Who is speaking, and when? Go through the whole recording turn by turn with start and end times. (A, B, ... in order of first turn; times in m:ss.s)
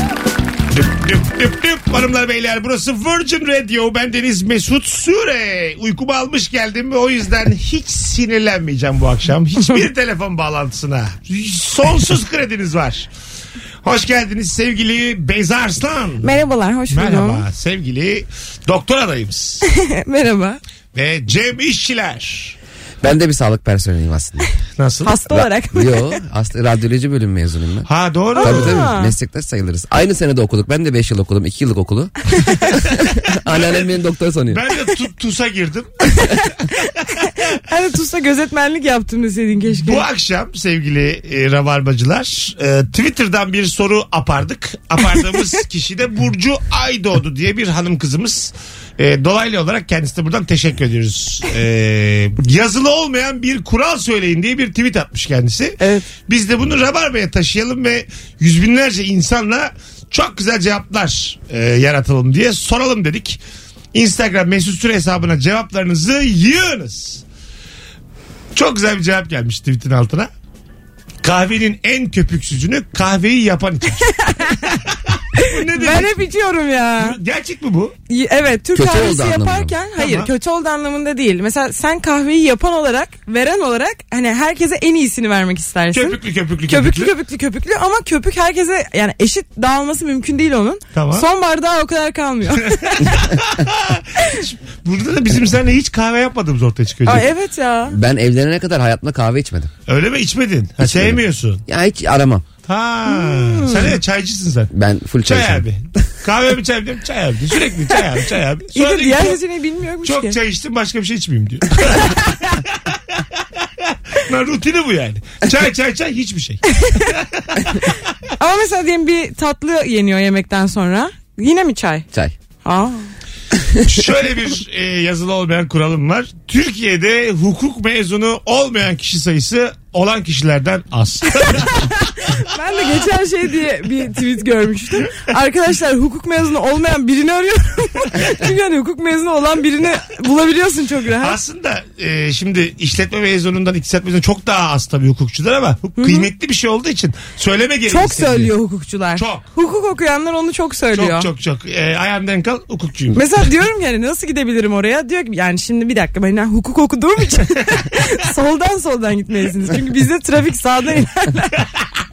0:00.7-0:13.1 A
0:13.8-0:16.3 A
0:16.2-0:17.4 B
0:16.9-0:19.6 A
0:19.6-0:20.6 B
0:21.0-0:22.6 A
0:23.0-0:24.4 C
0:24.8-0:25.2 A
0:25.0-0:26.2 B
0:25.3-0:27.9 C
0:27.9-0:28.8 A
0:28.4-0:29.1 B
0:28.4-0:34.6 C
0:33.5-0:33.9 A
0:34.5-0:36.0 A
0:36.8-0:40.0 B
0:39.8-1:03.4 A
0:55.8-0:56.1 B
1:03.9-1:07.2 A
1:08.5-1:10.3 A
1:11.2-1:14.2 A
1:14.2-1:14.8 B
1:15.1-1:16.2 A
1:15.4-1:17.2 B
1:17.0-1:17.9 A
1:18.1-1:26.2 B
1:18.7-1:19.8 C
1:20.0-1:20.3 A
1:25.9-1:27.1 A
1:26.7-1:33.1 B
1:30.9-1:31.3 A
1:32.7-1:37.3 A
1:37.1-1:38.0 B
1:37.9-1:39.7 C
1:39.9-1:41.6 A
1:40.8-1:42.4 C
1:42.7-1:44.7 A
1:43.1-1:43.9 B
1:44.7-1:45.6 C
1:45.3-1:49.4 A
1:48.7-1:50.4 B
1:50.0-1:53.2 A
1:54.1-1:57.8 A
1:56.7-1:57.1 B
1:58.4-2:02.1 B
2:02.6-2:03.1 B
2:03.5-2:03.8 C
2:03.8-2:11.8 A
2:11.4-2:21.4 B
2:21.2-2:28.5 A
2:26.0-2:26.3 B
2:27.9-2:31.3 B
2:29.2-2:29.4 A
2:30.9-2:33.3 A
2:33.1-2:41.6 B